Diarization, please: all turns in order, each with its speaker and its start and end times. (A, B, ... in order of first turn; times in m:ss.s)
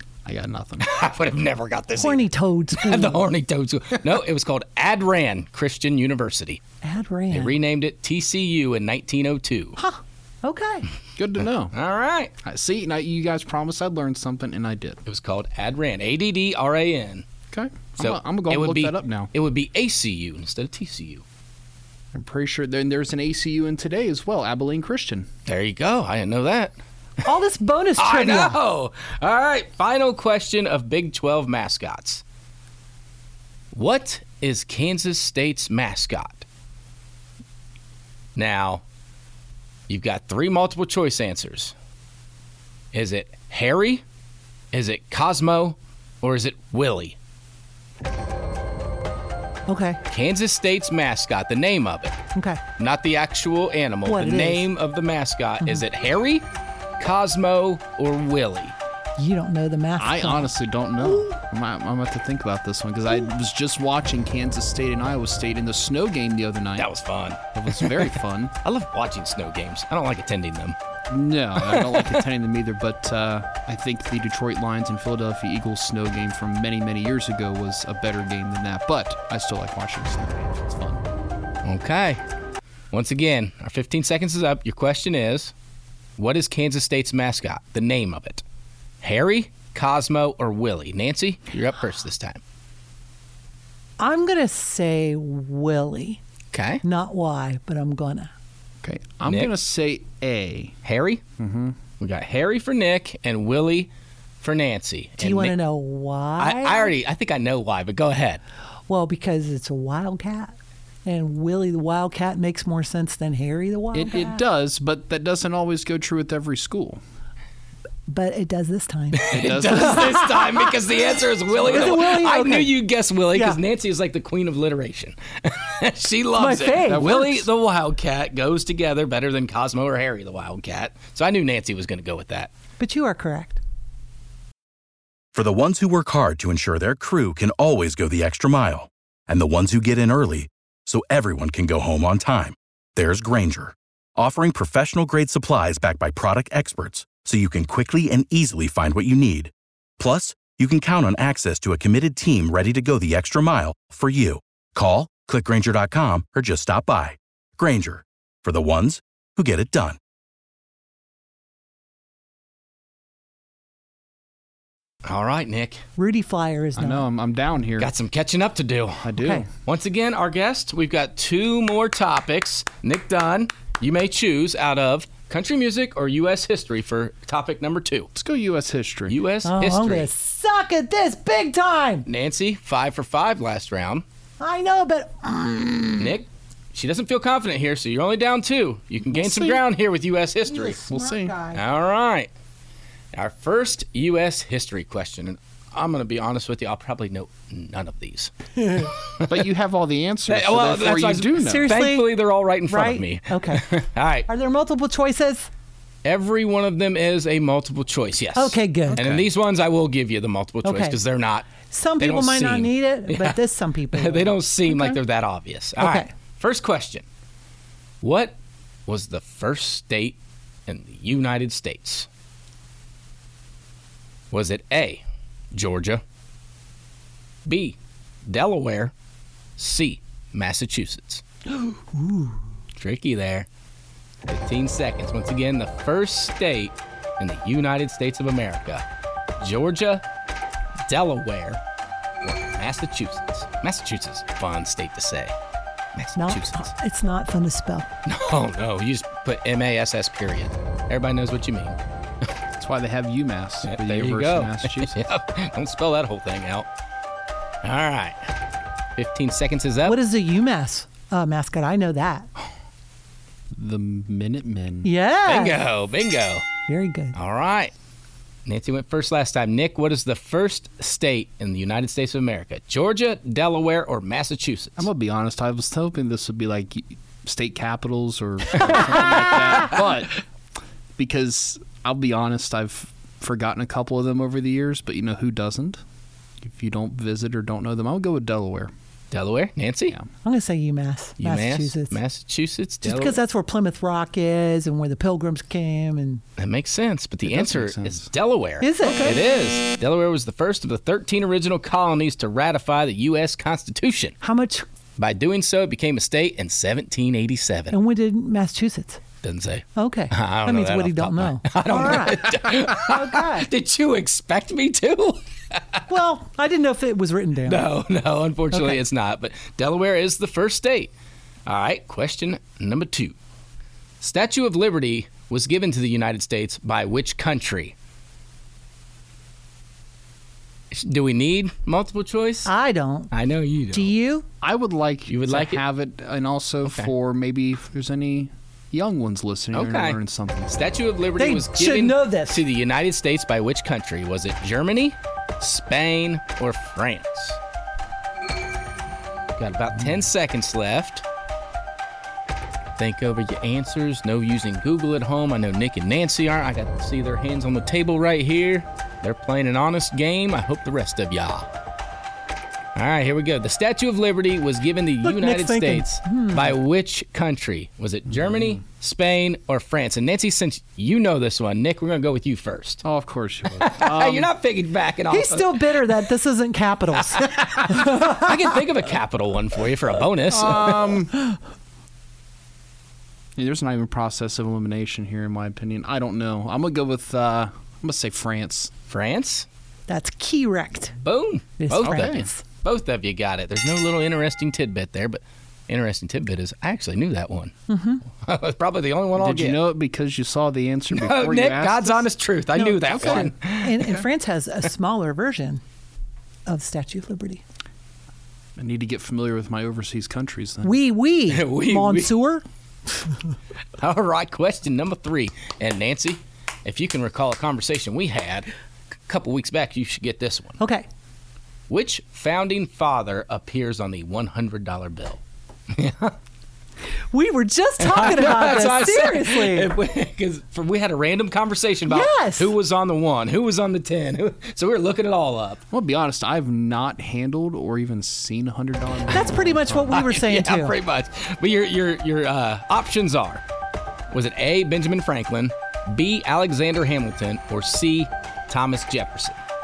0:00.2-0:00.9 A
0:00.8-0:06.6 B
0:02.0-0:03.2 C
0:06.8-0:07.5 C
0:07.3-0:09.8 B
0:09.8-0:10.9 C
0:11.2-0:11.8 A
0:11.7-0:12.3 B
0:12.4-0:15.0 A
0:15.1-0:17.3 B
0:17.5-0:19.3 A
0:18.0-0:21.2 B
0:22.1-0:25.3 A
0:25.5-0:26.7 B
0:27.2-0:28.6 C
0:28.0-0:32.2 B
0:33.7-0:36.4 B
0:38.4-0:38.8 B
0:39.9-0:41.7 B
0:42.9-0:44.0 B
0:44.7-0:47.2 B
0:49.7-0:50.0 C
0:50.1-0:52.2 B
0:52.4-0:52.6 C
0:52.8-0:56.5 B
0:54.0-0:54.7 C
0:57.0-0:58.8 B
0:59.2-1:01.3 C
1:00.0-1:06.9 A
1:06.8-1:10.8 B
1:07.5-1:08.5 A
1:11.1-1:21.0 A
1:11.6-1:12.2 B
1:21.6-1:22.2 B
1:22.9-1:25.5 B
1:26.2-1:28.4 B
1:29.0-1:32.4 B
1:34.0-1:36.2 C
1:36.5-1:36.8 B
1:36.8-1:38.3 C
1:38.8-1:40.8 A
1:39.3-1:39.5 B
1:40.8-1:41.2 B
1:41.4-1:41.8 A
1:42.0-1:45.6 B
1:45.2-1:46.9 C
1:46.4-1:48.4 B
1:48.9-1:54.4 C
1:53.9-1:57.0 A
1:58.1-2:00.4 C
1:59.2-2:12.5 B
1:59.3-2:00.4 A
2:01.6-2:02.7 C
2:03.3-2:03.6 C
2:06.4-2:07.4 C
2:06.9-2:07.4 A
2:12.8-2:13.6 C
2:15.3-2:40.0 D
2:45.0-2:45.8 B
2:46.0-2:47.1 C
2:46.8-2:47.9 A
2:47.8-2:58.1 B
2:49.0-2:49.5 A
2:49.2-2:49.4 C
2:58.2-2:59.2 A
2:59.1-3:00.1 B
2:59.4-3:02.1 C
3:02.1-3:04.0 B
3:04.4-3:06.2 C
3:06.0-3:10.8 B
3:09.1-3:09.6 C
3:10.5-3:11.6 C
3:10.9-3:11.4 A
3:11.5-3:12.3 B
3:13.1-3:18.3 B
3:18.6-3:18.9 C
3:18.8-3:19.4 B
3:19.3-3:21.8 A
3:20.3-3:24.3 B
3:21.4-3:22.1 C
3:22.7-3:23.7 C
3:24.3-3:25.5 C
3:26.0-3:33.4 B
3:28.4-3:29.0 C
3:28.9-3:29.3 A
3:30.6-3:31.0 C
3:31.7-3:35.0 C
3:33.9-3:37.0 B
3:35.8-3:36.1 C
3:38.0-3:38.4 B
3:38.9-3:42.1 B
3:44.3-3:46.0 B
3:47.5-3:48.9 B
3:49.6-3:51.2 B
3:51.5-3:52.4 C
3:52.8-3:53.5 B
3:54.3-3:58.8 B
3:59.4-4:00.0 B
4:00.9-4:01.6 B
4:02.2-4:05.3 B
4:06.0-4:06.7 B
4:06.2-4:07.9 C
4:08.1-4:11.8 B
4:12.6-4:15.0 A
4:13.6-4:16.7 B
4:17.6-4:18.2 B
4:19.0-4:20.0 B
4:19.9-4:22.3 C
4:23.6-4:24.9 A
4:24.8-4:25.6 C
4:25.3-4:26.5 B
4:26.7-4:27.2 C
4:27.2-4:27.7 B
4:28.5-4:34.9 B
4:34.8-4:40.2 A
4:41.0-4:45.8 A
4:46.4-4:48.7 A
4:49.1-4:50.0 B
4:50.2-4:52.0 C
4:51.2-4:53.2 B
4:52.8-4:56.2 C
4:56.4-5:04.2 B
4:57.2-4:58.1 A
4:58.6-4:59.2 C
4:58.8-4:59.2 A
5:04.2-5:04.6 C
5:05.0-5:07.8 B
5:07.7-5:09.0 C
5:09.2-5:15.8 B
5:09.8-5:13.5 C
5:15.9-5:17.7 C
5:17.5-5:20.9 B
5:18.5-5:18.8 C
5:21.5-5:23.2 B
5:24.0-5:27.7 B
5:30.7-5:32.5 B
5:32.5-5:33.1 C
5:33.1-5:33.9 B
5:33.7-5:34.2 C
5:34.4-5:40.7 A
5:35.1-5:35.6 B
5:36.7-5:36.9 B
5:39.5-5:40.0 B
5:40.6-5:47.4 B
5:41.2-5:42.4 C
5:49.4-5:51.0 B
5:52.8-6:01.5 B
6:02.8-6:12.8 B
6:05.0-6:06.6 C
6:12.8-6:14.3 A
6:13.6-6:15.6 B
6:15.1-6:18.3 C
6:17.1-6:21.0 B
6:20.3-6:21.2 A
6:23.4-6:28.7 A
6:28.9-6:29.5 B
6:29.9-6:31.0 C
6:31.0-6:37.6 B
6:31.6-6:32.4 C
6:31.8-6:32.3 A
6:37.7-6:38.0 C
6:38.2-6:39.6 B
6:39.2-6:42.1 A
6:40.9-6:43.8 B
6:42.6-6:45.6 C
6:42.9-6:44.1 A
6:46.5-6:47.4 C
6:48.6-6:50.7 A
6:50.6-6:52.4 C
6:51.3-6:52.1 B
6:53.8-6:58.5 B
6:59.1-7:00.6 B
7:00.6-7:00.9 C
7:01.7-7:06.2 B
7:07.1-7:09.7 C
7:07.8-7:15.6 B
7:11.9-7:12.5 C
7:15.7-7:20.0 A
7:19.1-7:20.8 C
7:19.9-7:23.4 B
7:24.1-7:29.4 B